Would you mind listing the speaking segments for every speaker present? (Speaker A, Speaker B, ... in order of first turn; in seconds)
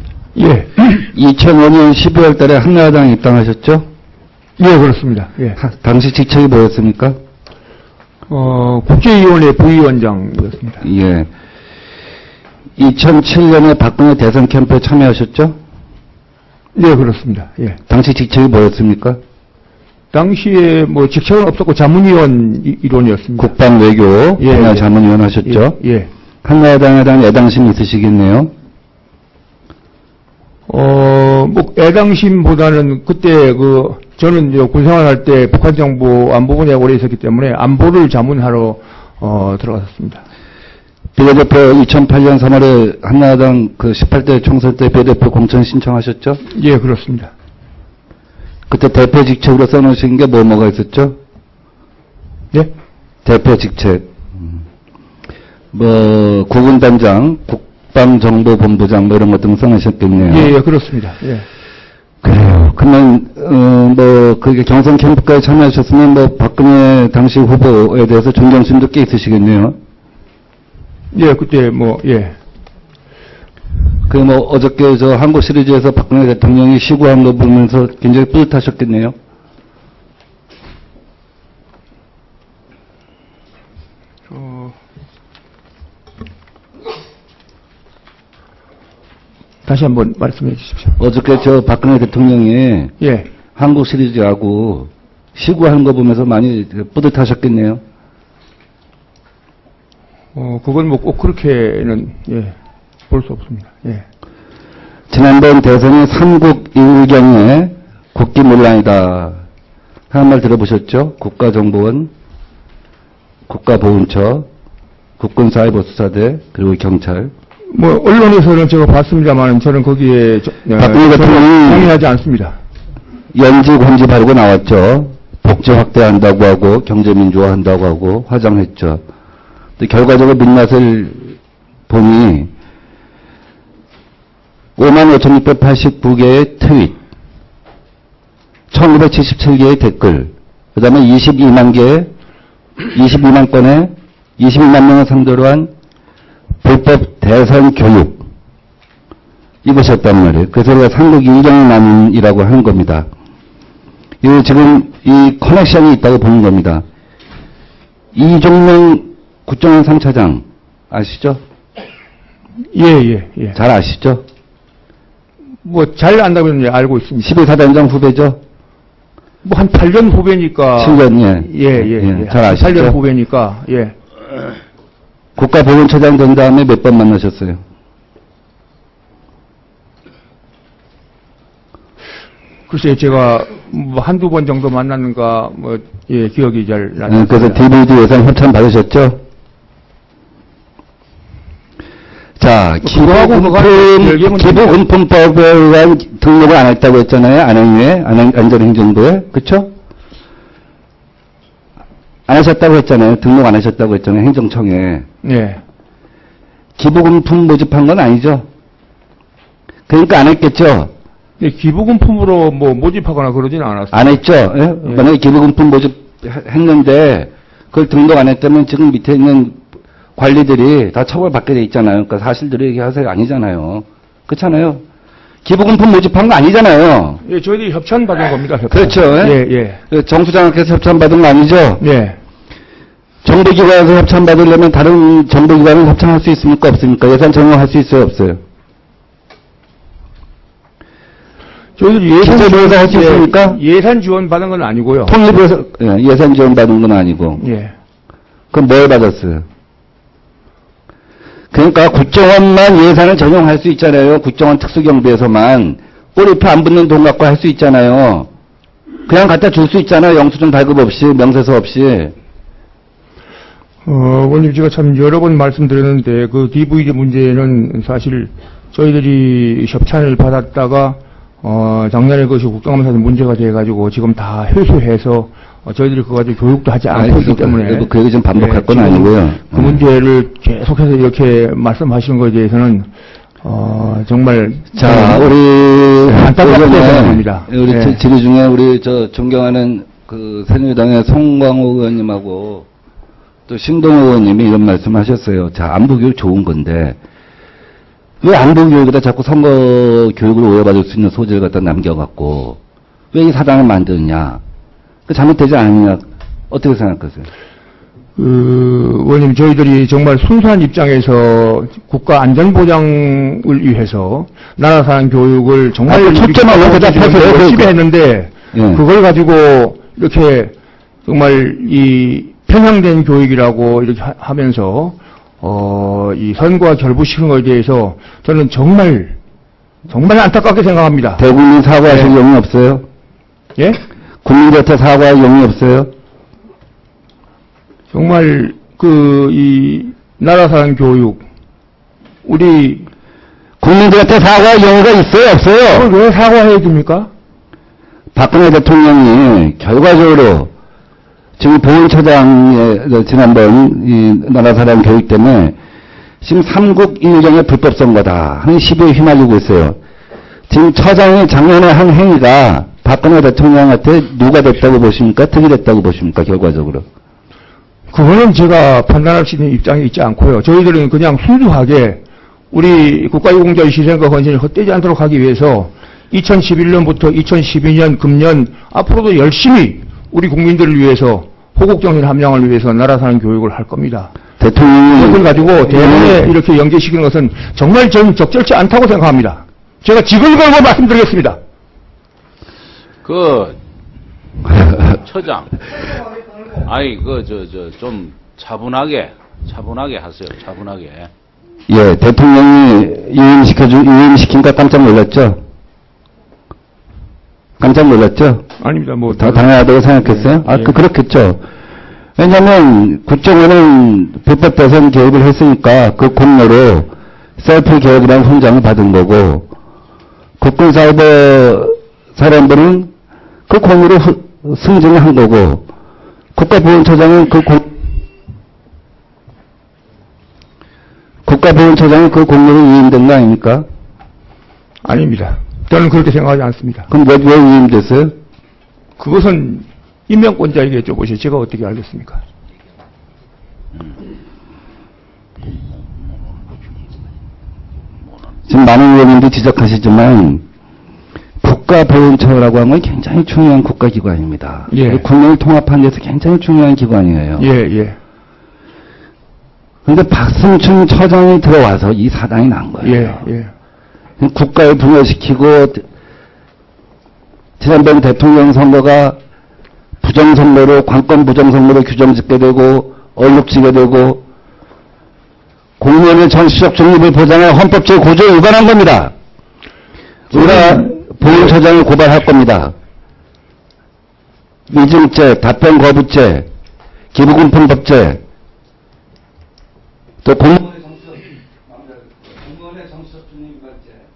Speaker A: 0.3-0.7, 4.6-5.6, 8.3-10.8, 16.8-17.8, 20.1-23.5, 24.4-24.9, 25.4-26.1, 30.7-40.2, 46.5-47.3, 60.2-61.5, 71.1-72.4, 84.3-84.7, 89.7-91.0, 93.0-93.3, 100.3-102.6, 103.1-104.0, 117.7-122.6, 162.7-163.6, 165.6-167.3, 169.4-174.0, 182.7-187.6, 192.8-194.8, 205.2-205.6, 211.4-214.2, 227.2-229.8, 231.8-232.2, 241.8-245.2, 247.4-247.8, 263.9-282.9, 283.4-285.3, 286.1-288.0, 308.2-320.5, 321.1-329.2, 329.9-331.2, 331.9-332.1, 337.9-341.2, 342.2-342.9, 345.7-347.1, 367.9-384.1, 384.9-391.4, 408.6-410.8, 434.8-436.9, 439.0-442.2, 454.7-455.0, 457.4-458.0, 462.8-463.5
Speaker B: 0.8-3.9, 5.6-7.2, 10.8-11.3, 12.8-15.6, 17.9-19.2, 23.4-25.8, 26.4-28.5, 41.1-46.4, 48.7-51.2, 53.2-54.5, 55.7-60.5, 62.2-69.8, 74.1-79.2, 91.0-92.9, 93.6-97.8, 105.1-109.4, 110.1-112.1, 113.5-114.5, 115.2-117.3, 120.8-121.9, 123.3-129.0, 129.8-131.4, 131.9-132.5, 134.8-137.0, 138.7-142.1, 142.9-145.7, 146.6-148.2, 149.6-153.1, 154.2-156.8, 158.1-161.4, 163.5-164.2, 167.2-168.4, 170.8-173.0, 175.4-177.6, 187.1-189.2, 192.4-199.7, 202.3-205.1, 206.8-208.5, 209.9-210.9, 213.9-219.6, 220.2-224.8, 225.4-227.2, 228.7-231.8, 233.2-238.4, 242.2-243.6, 245.1-247.4, 248.5-249.4, 251.5-258.3, 259.1-262.1, 276.9-279.8, 284.8-292.7, 293.5-297.0, 298.2-302.6, 303.1-304.4, 305.1-307.3, 315.9-317.8, 318.5-318.8, 331.2-332.8, 334.2-335.9, 343.6-345.9, 348.1-350.5, 351.4-355.6, 356.2-359.8, 360.5-366.9, 384.4-386.3, 401.7-405.4, 407.6-408.4, 409.1-411.4, 412.2-419.5, 420.4-422.9, 423.5-425.7, 426.4-427.7, 431.2-433.7, 436.9-438.1, 448.5-450.4, 451.4-457.5, 459.9-463.2, 464.2-465.9, 467.6-469.2, 470.0-474.2, 475.8-479.1, 480.3-482.7, 484.7-486.5, 487.1-488.2, 490.2-491.1
Speaker C: 393.0-393.6, 394.5-401.1